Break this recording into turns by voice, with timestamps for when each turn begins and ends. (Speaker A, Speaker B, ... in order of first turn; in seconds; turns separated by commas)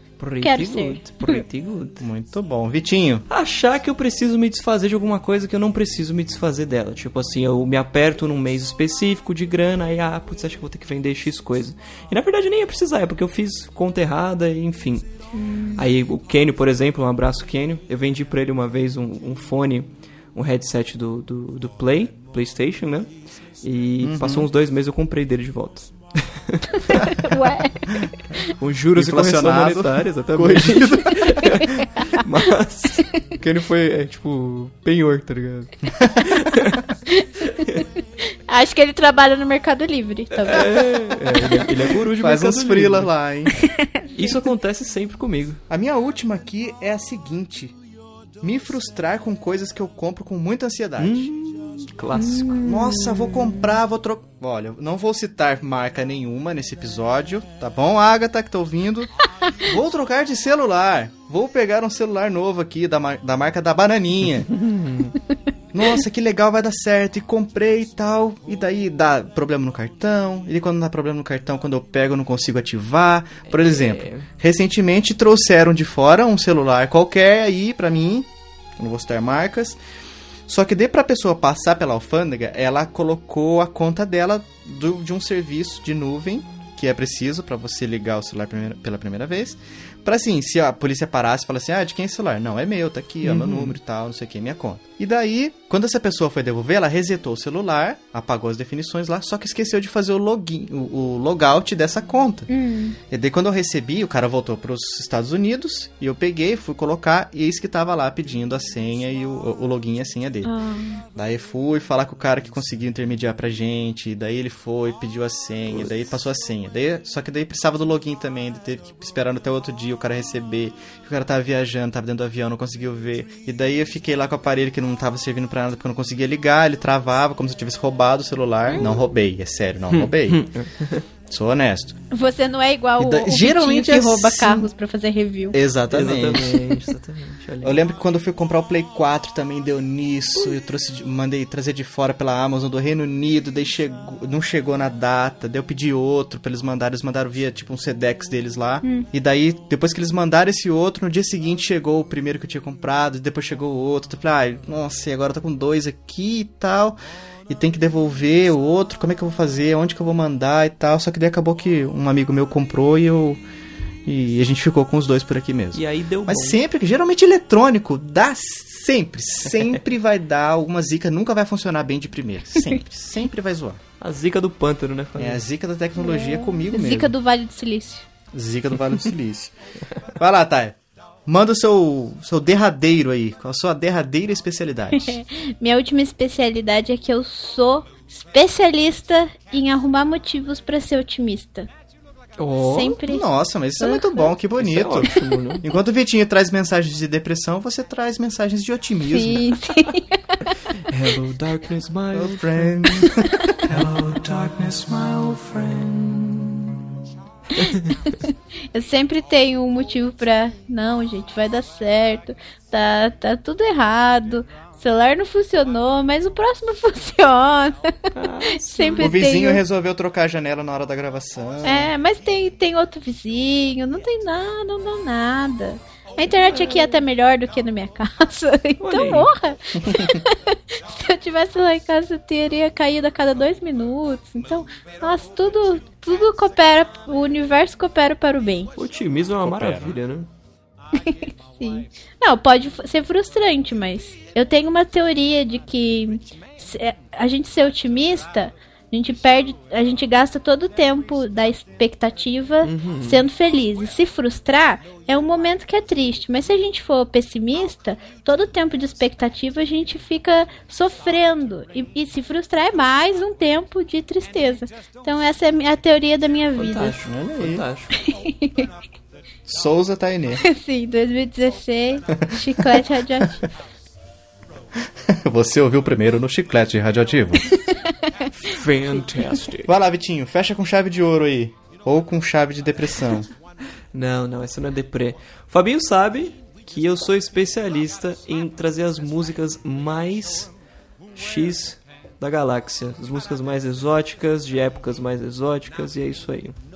Speaker A: 0.2-2.0, Speaker B: 0.4-1.4, Speaker C: 2.0-3.2, Speaker A: 3.3-15.1, Speaker B: 15.3-15.9, Speaker A: 15.8-23.1, Speaker A: 23.6-27.1, Speaker C: 24.0-24.5, Speaker B: 26.8-28.5, Speaker A: 28.5-36.9, Speaker C: 28.9-31.3, Speaker B: 31.3-32.2, Speaker B: 37.1-41.5, Speaker A: 37.5-37.8, Speaker A: 40.4-43.1, Speaker C: 42.0-43.6, Speaker B: 43.6-44.3, Speaker A: 44.1-45.6, Speaker C: 45.7-47.8, Speaker C: 48.4-51.3, Speaker A: 51.0-52.6, Speaker B: 52.1-53.8, Speaker C: 52.4-64.5, Speaker A: 64.5-65.2, Speaker C: 65.7-79.8, Speaker A: 73.5-74.3, Speaker C: 80.5-102.5, Speaker A: 93.2-93.8, Speaker B: 102.5-103.0, Speaker C: 103.1-110.5, Speaker B: 110.4-111.0, Speaker C: 111.2-130.5, Speaker B: 128.7-129.0, Speaker A: 129.9-131.1, Speaker C: 131.3-132.0, Speaker B: 132.1-135.6, Speaker C: 133.0-134.7, Speaker C: 135.5-136.7, Speaker A: 135.9-137.8, Speaker C: 137.6-157.0, Speaker B: 148.8-149.1, Speaker C: 157.5-163.4, Speaker C: 164.1-173.8, Speaker A: 165.7-166.6, Speaker A: 174.0-175.4, Speaker C: 175.2-177.2, Speaker B: 176.0-178.1, Speaker C: 178.3-179.5, Speaker C: 180.2-185.2, Speaker B: 184.9-191.7, Speaker A: 192.4-193.0, Speaker B: 192.6-193.3, Speaker C: 193.0-199.5, Speaker B: 193.8-194.3, Speaker A: 194.6-195.7, Speaker B: 199.1-200.6, Speaker A: 200.9-202.9, Speaker C: 202.1-203.8, Speaker A: 203.7-206.8, Speaker B: 207.6-219.6, Speaker A: 207.7-207.9, Speaker A: 218.2-219.1, Speaker C: 219.0-221.9, Speaker B: 221.6-238.7, Speaker A: 226.4-227.0, Speaker A: 228.8-229.3, Speaker A: 238.8-240.3, Speaker C: 239.4-240.0, Speaker B: 240.9-267.0, Speaker A: 252.6-253.2, Speaker A: 266.6-268.0, Speaker C: 267.0-267.7, Speaker B: 267.9-268.7, Speaker C: 269.5-270.4, Speaker B: 270.4-273.5, Speaker C: 272.2-273.3, Speaker C: 274.8-277.5, Speaker B: 277.5-278.3, Speaker A: 278.4-279.7, Speaker C: 279.6-283.3, Speaker A: 283.9-290.5, Speaker A: 291.2-296.6